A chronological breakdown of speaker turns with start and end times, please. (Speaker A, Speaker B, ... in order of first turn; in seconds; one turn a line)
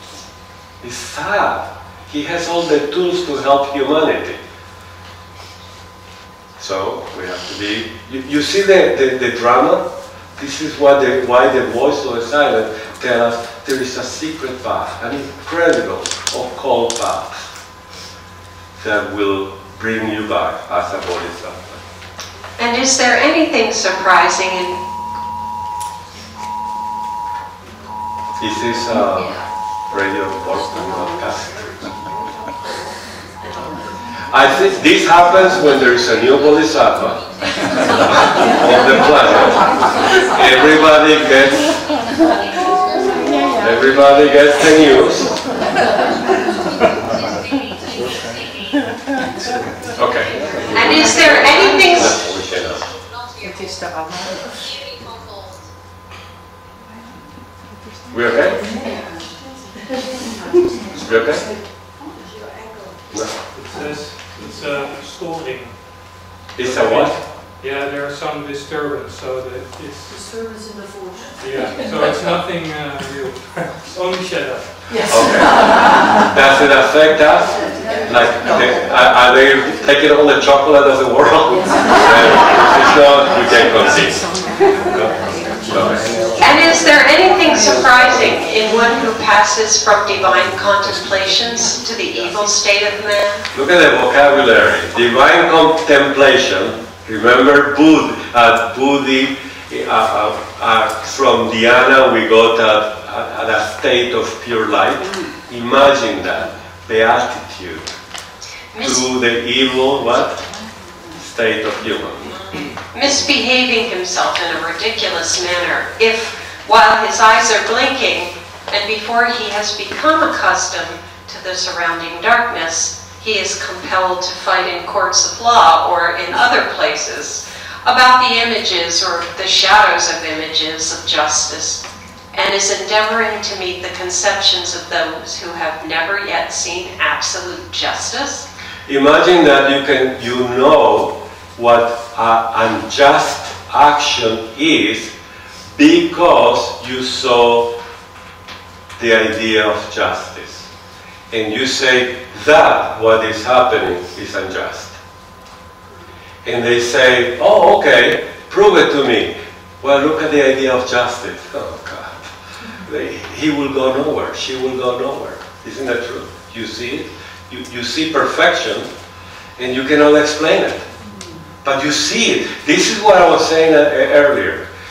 Speaker A: 0.8-4.4
Speaker A: 6.6-9.8
Speaker A: 10.4-17.5
Speaker A: 18.8-21.8
Speaker B: 22.6-24.8
Speaker A: 28.4-32.0
Speaker A: 34.3-37.2
Speaker A: 38.0-39.7
Speaker A: 40.3-41.8
Speaker A: 43.6-45.4
Speaker A: 50.0-52.9
Speaker B: 50.7-52.2
Speaker A: 58.1-58.6
Speaker C: 58.6-59.3
Speaker A: 61.0-61.5
Speaker C: 62.2-63.0
Speaker D: 63.5-65.8
Speaker A: 66.6-67.2
Speaker D: 66.6-70.2
Speaker C: 70.1-71.9
Speaker D: 71.4-74.7
Speaker C: 74.9-75.4
Speaker A: 75.1-84.2
Speaker A: 84.8-86.2
Speaker B: 86.4-93.4
Speaker A: 93.5-108.0
Speaker B: 108.7-109.0
Speaker A: 108.8-110.4
Speaker A: 111.2-112.3
Speaker B: 112.3-131.8
Speaker B: 132.3-138.5
Speaker A: 138.9-145.1
Speaker A: 145.7-147.7
Speaker A: 149.0-150.7
Speaker A: 151.3-155.0
Speaker A: 156.4-168.9
Speaker A: 169.6-170.8
Speaker A: 171.6-174.7